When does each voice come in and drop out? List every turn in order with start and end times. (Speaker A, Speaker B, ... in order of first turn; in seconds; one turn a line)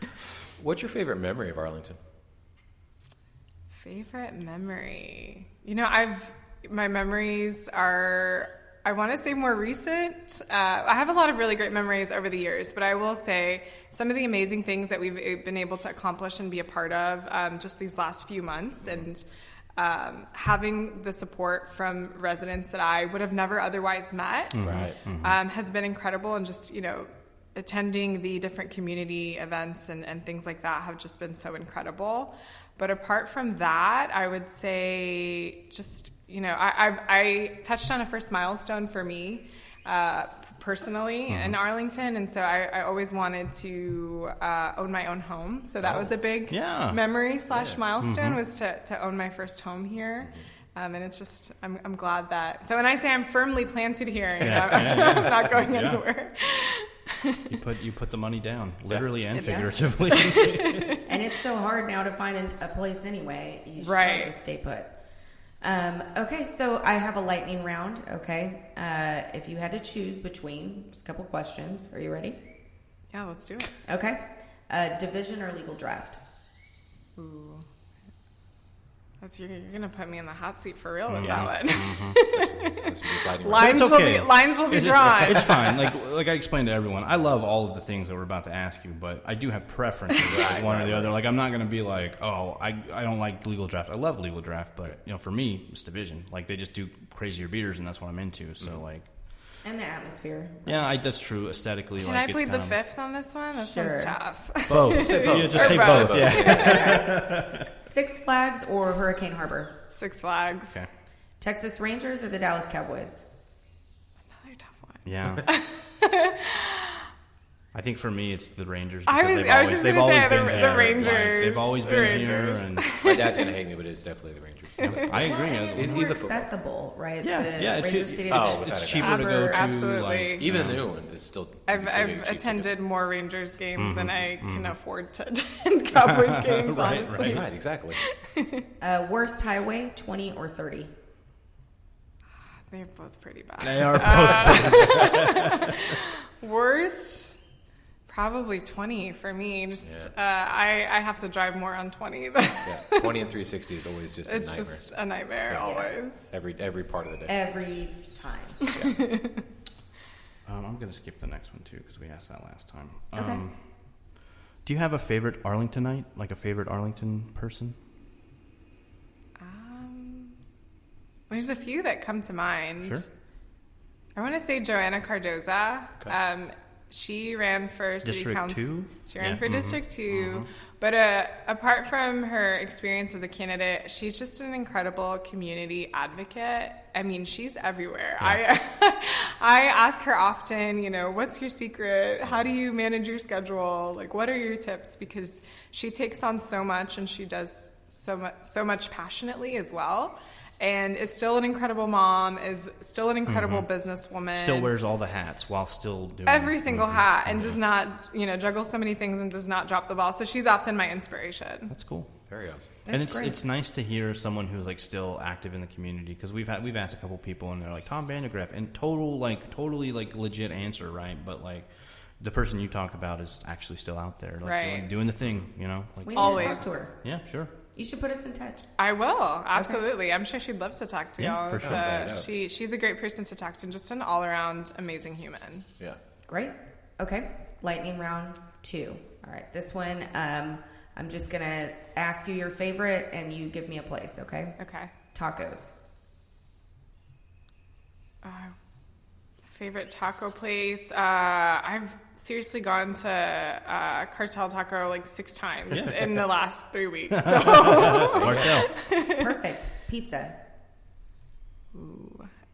Speaker A: 0.6-2.0
Speaker B: 3.7-19.2
Speaker B: 19.8-57.5
Speaker C: 24.5-25.4
Speaker A: 24.6-25.0
Speaker C: 41.3-41.5
Speaker C: 46.5-47.1
Speaker A: 47.5-47.8
Speaker C: 48.0-48.4
Speaker C: 54.4-56.0
Speaker C: 57.5-61.0
Speaker D: 59.3-59.7
Speaker B: 59.4-61.0
Speaker D: 61.0-65.0
Speaker B: 63.8-64.3
Speaker D: 65.6-72.4
Speaker B: 73.1-73.8
Speaker D: 73.8-76.2
Speaker B: 77.2-77.7
Speaker B: 79.2-85.8
Speaker C: 81.1-82.2
Speaker A: 81.2-81.6
Speaker A: 82.3-84.0
Speaker C: 83.5-99.1
Speaker A: 90.3-91.2
Speaker D: 99.6-100.9
Speaker C: 100.7-102.8
Speaker B: 102.0-106.9
Speaker D: 103.5-104.2
Speaker C: 104.6-107.7
Speaker A: 104.8-107.0
Speaker D: 106.5-109.8
Speaker B: 109.9-110.8
Speaker D: 111.4-113.2
Speaker B: 114.4-117.1
Speaker C: 115.0-115.5
Speaker C: 117.7-122.9
Speaker B: 119.1-123.5
Speaker A: 123.0-126.5
Speaker B: 124.8-125.2
Speaker C: 124.8-126.2
Speaker D: 125.2-129.6
Speaker C: 127.2-130.8
Speaker A: 128.3-129.4
Speaker B: 129.0-130.5
Speaker A: 130.4-132.7
Speaker B: 131.7-138.7
Speaker C: 133.8-134.7
Speaker C: 135.9-137.5
Speaker A: 137.2-138.0
Speaker D: 138.8-140.9
Speaker B: 142.7-147.4
Speaker C: 143.6-145.7
Speaker B: 148.1-153.2
Speaker A: 149.8-150.1
Speaker A: 152.6-154.8
Speaker B: 154.2-156.3
Speaker D: 155.6-155.9
Speaker A: 156.2-157.3
Speaker D: 157.3-158.6
Speaker B: 159.0-159.4
Speaker C: 160.4-163.8
Speaker D: 163.2-163.4
Speaker C: 164.6-167.8
Speaker B: 169.4-170.3
Speaker B: 171.3-173.0
Speaker B: 174.2-204.7
Speaker C: 178.0-180.5
Speaker C: 203.2-203.7
Speaker C: 204.3-207.6
Speaker B: 206.2-211.7
Speaker C: 211.7-212.1
Speaker A: 212.3-212.7
Speaker D: 212.8-213.4
Speaker C: 212.8-227.5
Speaker B: 224.4-224.9
Speaker D: 226.0-227.0
Speaker B: 226.1-226.7
Speaker D: 227.7-228.7
Speaker B: 228.8-235.7
Speaker D: 229.5-229.8
Speaker C: 231.2-232.2
Speaker A: 231.6-232.3
Speaker D: 236.3-244.6
Speaker B: 244.6-244.9
Speaker D: 245.1-245.7
Speaker B: 248.2-248.5
Speaker B: 249.4-259.3
Speaker C: 255.7-256.3
Speaker C: 257.1-258.9
Speaker A: 258.1-258.5
Speaker D: 259.0-260.4
Speaker B: 261.7-262.3